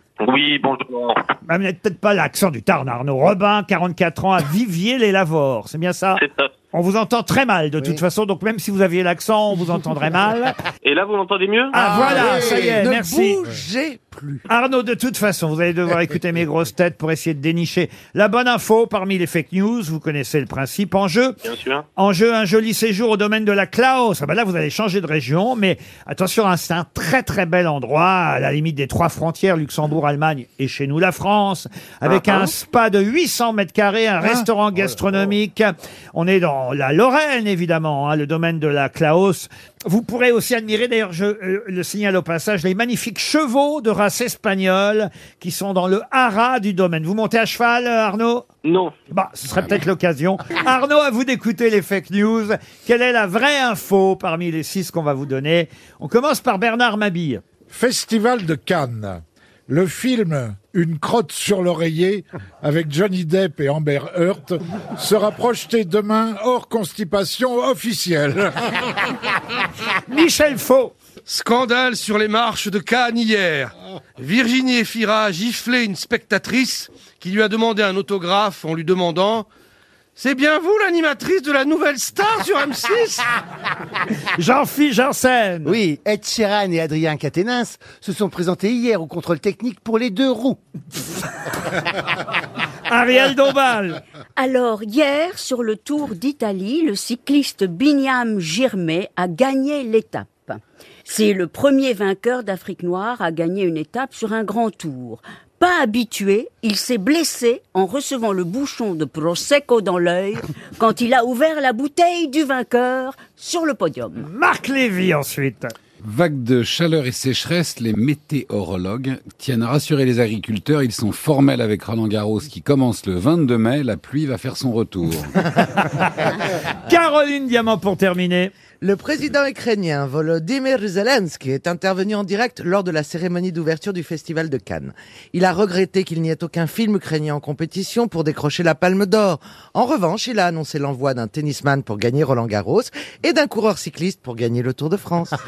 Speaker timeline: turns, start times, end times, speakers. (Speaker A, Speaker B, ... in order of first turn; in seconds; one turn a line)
Speaker A: 0.2-1.2
Speaker B: 1.5-10.6
Speaker A: 6.2-6.5
Speaker A: 10.8-11.8
Speaker B: 11.7-13.4
Speaker C: 11.7-12.8
Speaker D: 11.8-14.4
Speaker B: 14.5-21.4
Speaker A: 21.4-21.8
Speaker B: 22.0-48.5
Speaker D: 32.1-32.5
Speaker A: 48.6-48.9
Speaker B: 49.1-57.4
Speaker E: 57.7-68.9
Speaker B: 70.1-70.9
Speaker F: 71.3-79.5
Speaker F: 80.2-83.2
Speaker B: 84.3-85.8
Speaker C: 85.6-90.6
Speaker B: 92.9-94.0
Speaker G: 94.4-114.2
Speaker B: 114.2-115.7
Speaker H: 116.0-125.5
Speaker B: 126.8-128.5
Speaker D: 128.8-145.4